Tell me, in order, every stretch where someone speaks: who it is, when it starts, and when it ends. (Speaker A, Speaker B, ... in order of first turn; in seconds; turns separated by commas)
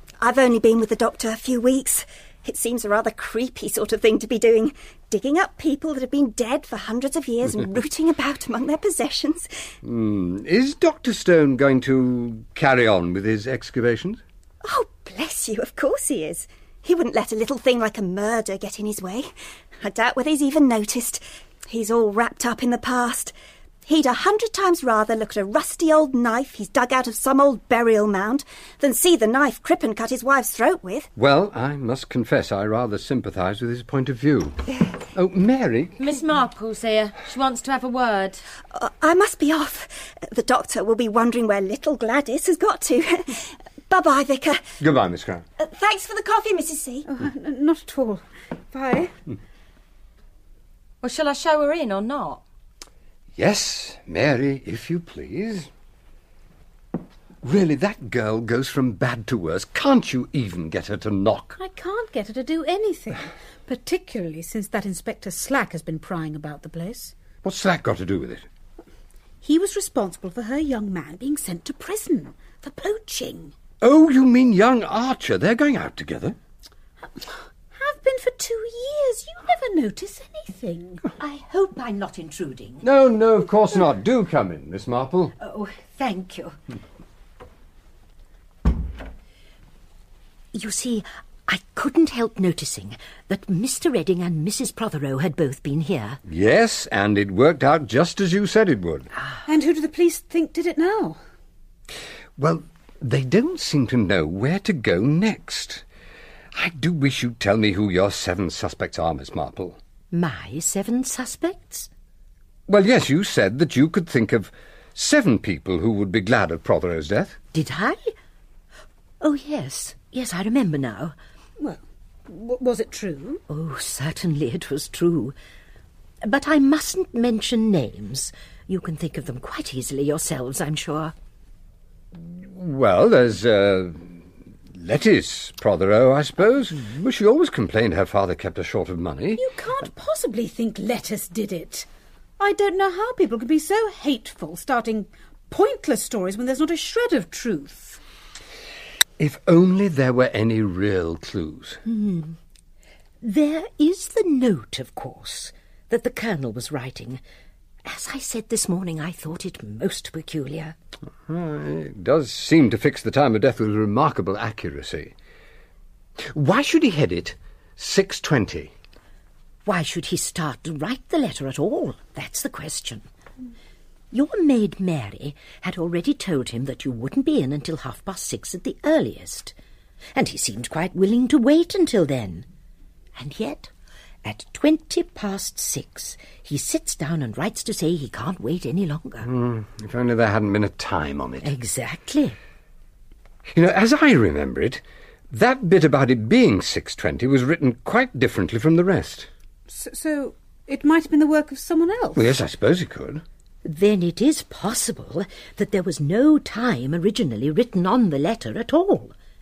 Speaker A: 0.2-9.5, Speaker B: 9.8-14.2, Speaker A: 14.6-23.3, Speaker A: 23.9-31.1, Speaker B: 31.1-34.6, Speaker B: 35.1-36.0, Speaker C: 36.0-38.4, Speaker A: 38.7-44.6, Speaker B: 44.8-45.4, Speaker A: 45.6-47.1, Speaker D: 47.0-49.1, Speaker C: 51.0-52.4, Speaker B: 53.4-55.7, Speaker B: 57.4-61.6, Speaker D: 61.6-67.1, Speaker B: 67.4-68.5, Speaker D: 69.4-73.5, Speaker B: 73.8-76.3, Speaker D: 77.7-81.0, Speaker E: 81.2-82.8, Speaker B: 82.8-85.3, Speaker E: 85.4-86.5, Speaker E: 90.5-96.2, Speaker B: 96.3-99.1, Speaker D: 99.5-101.2, Speaker B: 102.4-105.8, Speaker B: 106.5-109.8, Speaker E: 110.1-111.9, Speaker B: 112.7-117.4, Speaker E: 117.5-118.1, Speaker E: 119.2-121.1, Speaker D: 121.6-123.4, Speaker E: 123.5-125.3, Speaker E: 126.2-131.1, Speaker B: 132.2-134.2, Speaker B: 134.7-139.4, Speaker D: 139.3-141.9, Speaker D: 142.4-148.0, Speaker B: 149.2-151.8, Speaker E: 151.8-152.3, Speaker E: 153.2-157.2, Speaker E: 157.8-160.7, Speaker B: 161.3-165.1, Speaker B: 166.3-168.7, Speaker E: 169.6-173.1, Speaker E: 174.1-179.5, Speaker E: 180.1-182.4, Speaker E: 183.1-183.7, Speaker E: 184.2-189.3, Speaker B: 189.2-191.5, Speaker E: 191.4-192.3, Speaker B: 193.5-199.3, Speaker D: 199.7-202.3, Speaker B: 202.1-203.2, Speaker E: 203.6-209.1